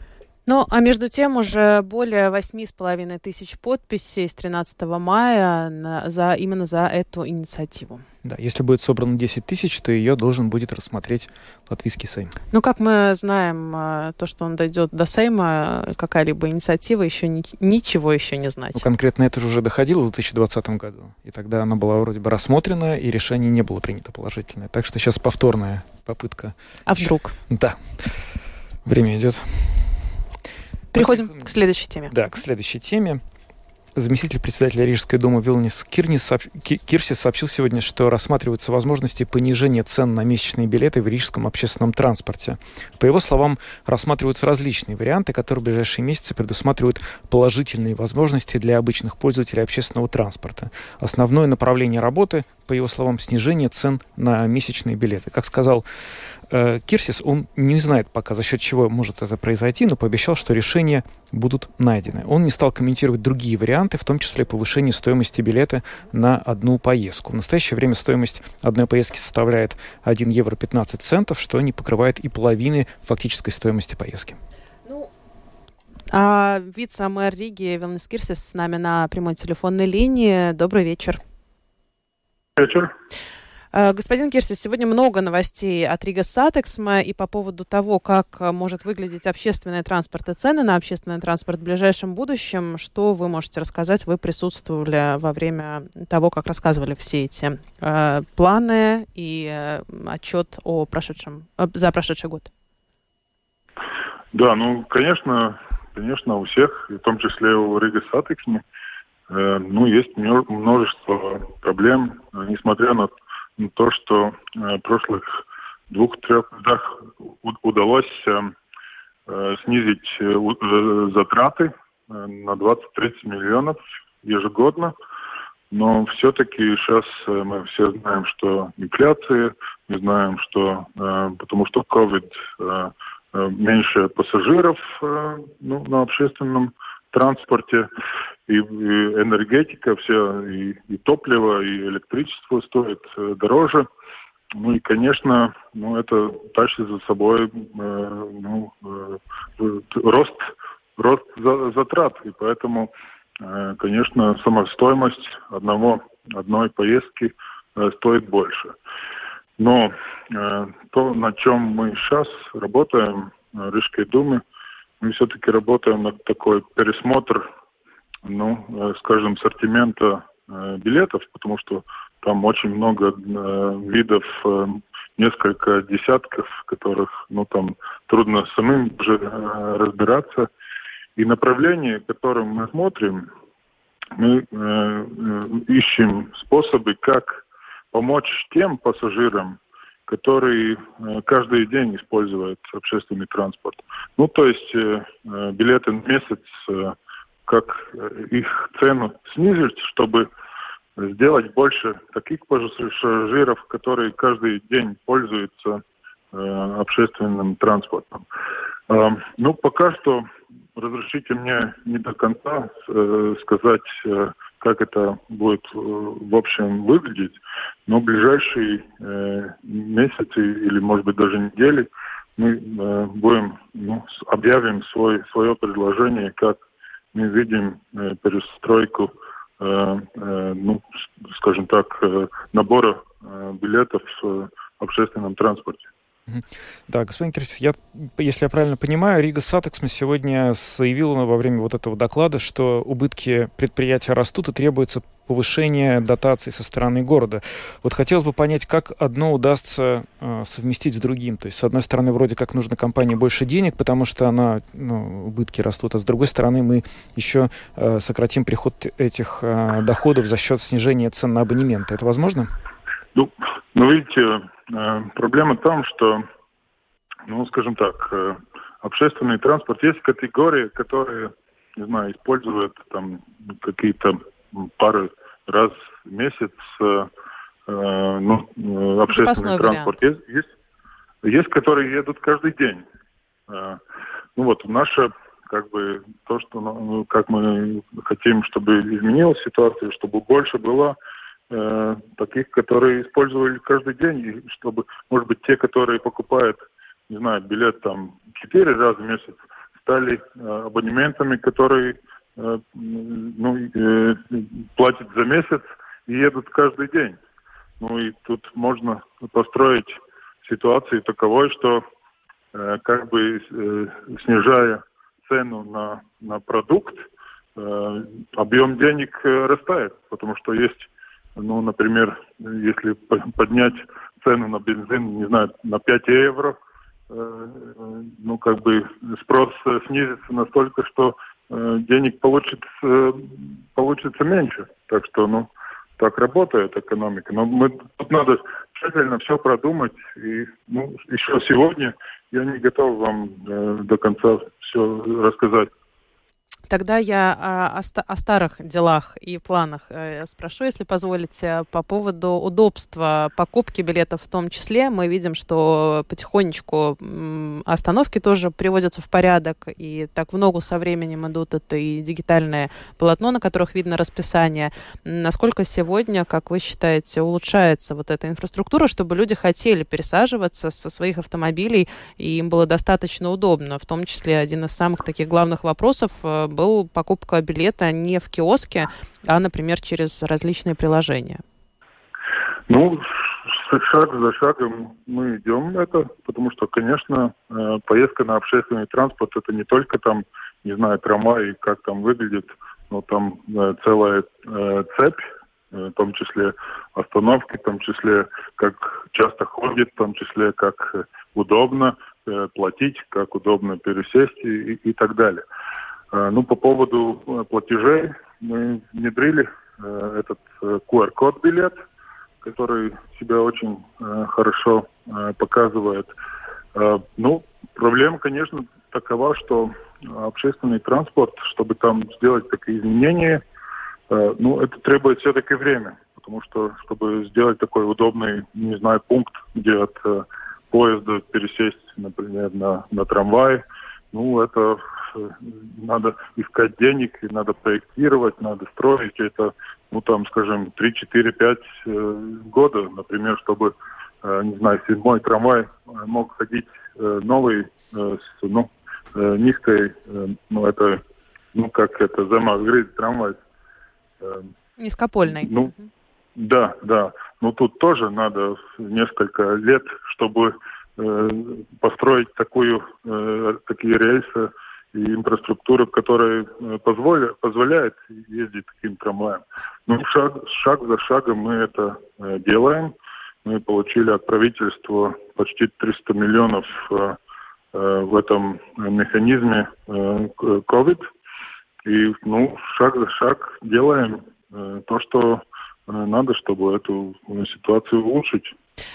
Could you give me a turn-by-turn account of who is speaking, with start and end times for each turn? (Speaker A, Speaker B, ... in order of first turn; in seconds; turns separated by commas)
Speaker A: 0.5-8.0, Speaker B: 8.2-12.3, Speaker A: 12.5-18.8, Speaker B: 18.7-28.2, Speaker A: 26.9-27.4, Speaker B: 28.8-29.9, Speaker A: 30.9-32.1, Speaker B: 30.9-31.5, Speaker B: 32.1-33.2, Speaker B: 33.9-55.8, Speaker B: 56.5-74.4, Speaker A: 76.1-81.2, Speaker C: 82.5-82.9, Speaker A: 83.7-102.5, Speaker C: 104.3-108.6, Speaker C: 109.3-118.5, Speaker C: 119.3-124.9, Speaker C: 125.7-137.9, Speaker C: 138.5-143.8, Speaker C: 144.5-158.7, Speaker C: 159.6-164.4, Speaker C: 165.0-167.5, Speaker C: 168.2-180.5, Speaker C: 181.2-183.3, Speaker C: 184.1-187.4, Speaker C: 187.9-196.9, Speaker C: 197.5-200.3, Speaker C: 201.0-208.2, Speaker C: 208.9-226.6, Speaker C: 227.1-235.9, Speaker B: 236.3-262.5, Speaker C: 263.1-266.2, Speaker C: 267.3-277.1, Speaker C: 277.7-280.5, Speaker A: 279.1-279.9, Speaker C: 281.2-282.8, Speaker C: 283.5-283.8, Speaker C: 284.4-290.9, Speaker C: 291.5-307.2, Speaker C: 307.8-311.8, Speaker C: 312.5-317.0, Speaker C: 317.6-326.6, Speaker C: 327.1-345.7, Speaker A: 346.7-381.4, Speaker C: 382.7-405.4, Speaker C: 406.1-411.8, Speaker C: 412.4-416.1, Speaker C: 416.7-423.4, Speaker C: 424.1-451.0, Speaker C: 451.5-453.4, Speaker A: 454.8-455.8, Speaker C: 455.3-455.7, Speaker C: 456.4-472.9, Speaker C: 473.4-477.2, Speaker C: 477.7-481.1, Speaker C: 481.8-488.5